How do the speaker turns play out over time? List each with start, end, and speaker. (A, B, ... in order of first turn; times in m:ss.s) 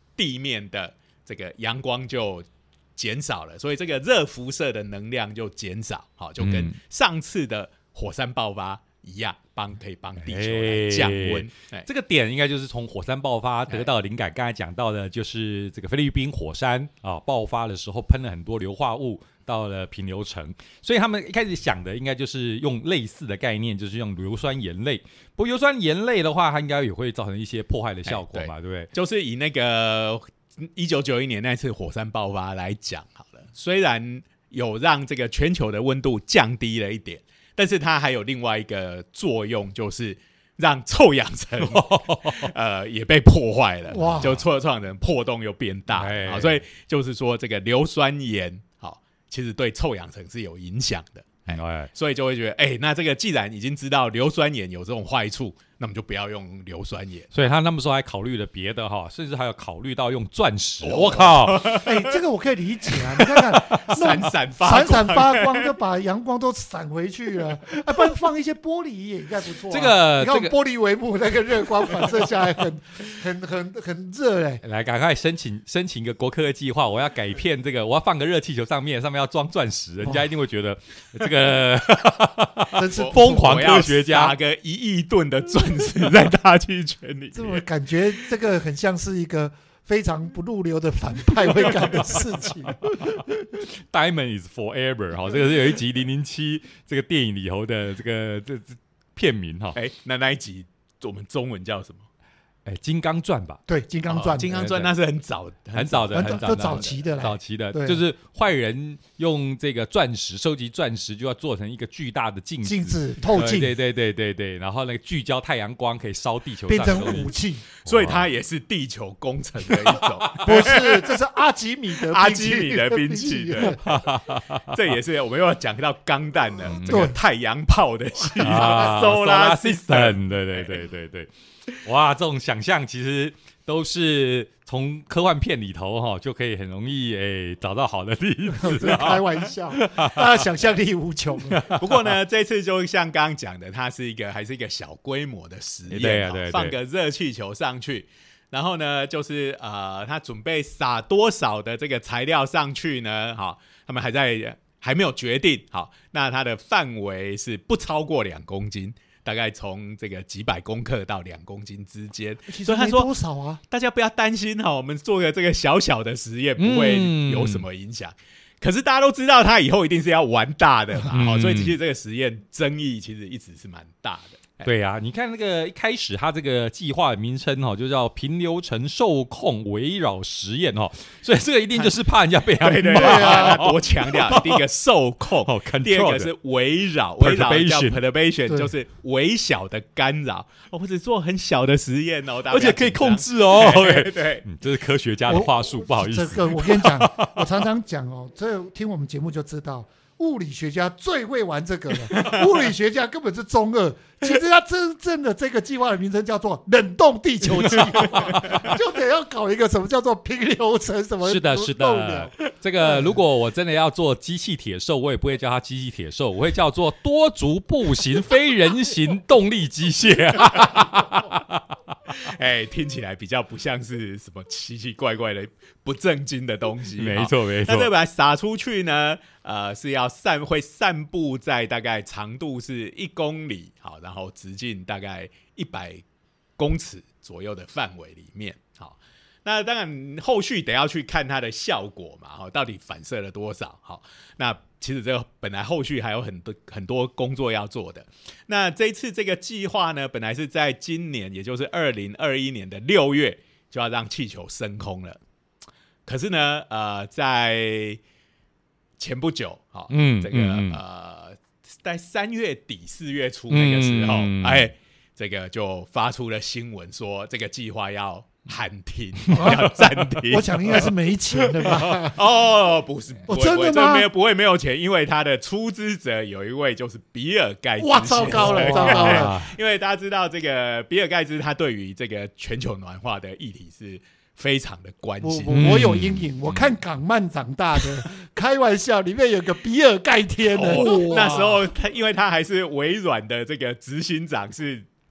0:00.2-0:11.9 A
0:06.4-0:06.8 B
0:10.2-0:28.9 B
0:28.1-0:57.3 A
0:41.6-0:42.5 B
0:43.9-0:44.4 C
0:45.9-0:46.6 B
0:51.5-0:51.9 B
0:57.3-1:01.8 B
1:00.8-1:02.2 A
1:01.8-1:14.6 C
1:03.4-1:05.8 A
1:09.7-1:10.5 B
1:14.6-1:24.4 B
1:22.7-1:23.6 C
1:23.0-1:27.6 A
1:27.3-1:33.2 C
1:32.9-1:39.8 B
1:39.8-1:42.0 A
1:42.6-1:43.6 B
1:43.7-1:44.5 C
1:44.1-1:47.0 A
1:44.4-1:44.9 B
1:45.8-1:57.3 B
1:46.1-1:48.0 C
1:52.6-1:53.7 C
1:56.7-1:57.6 C
1:57.8-2:01.2 A
1:57.9-1:58.3 B
1:59.8-2:00.4 B
2:00.4-2:03.8 C
2:02.0-2:04.0 A
2:03.7-2:04.8 B
2:04.7-2:10.8 A
2:06.7-2:07.1 B
2:06.9-2:07.2 C
2:08.4-2:11.3 B
2:11.8-2:20.5 B
2:18.5-2:21.7 C
2:21.5-2:22.1 B
2:21.7-2:43.1 A
2:25.9-2:26.8 B
2:42.5-2:43.6 C
2:43.7-2:54.7 A
2:46.6-2:47.6 B
2:51.0-2:51.8 B
2:54.6-3:04.6 B
3:02.6-3:14.4 A
3:02.9-3:03.7 C
3:05.4-3:06.3 B
3:07.2-3:08.0 B
3:12.5-3:17.5 B
3:15.3-3:33.1 C
3:27.6-3:28.7 B
3:31.2-3:42.0 B
3:42.1-3:56.0 A
3:47.0-3:47.9 B
3:56.6-4:15.2 A
4:16.1-4:18.0 A
4:19.0-4:30.9 A
4:19.9-4:20.8 B
4:23.5-4:24.7 B
4:29.3-4:29.7 B
4:29.4-4:29.7 C
4:30.2-4:32.2 C
4:31.6-4:45.8 A
4:33.3-4:34.1 C
4:37.8-4:39.4 C
4:38.2-4:39.6 B
4:45.2-4:51.6 C
4:45.5-4:46.7 B
4:50.5-4:54.9 A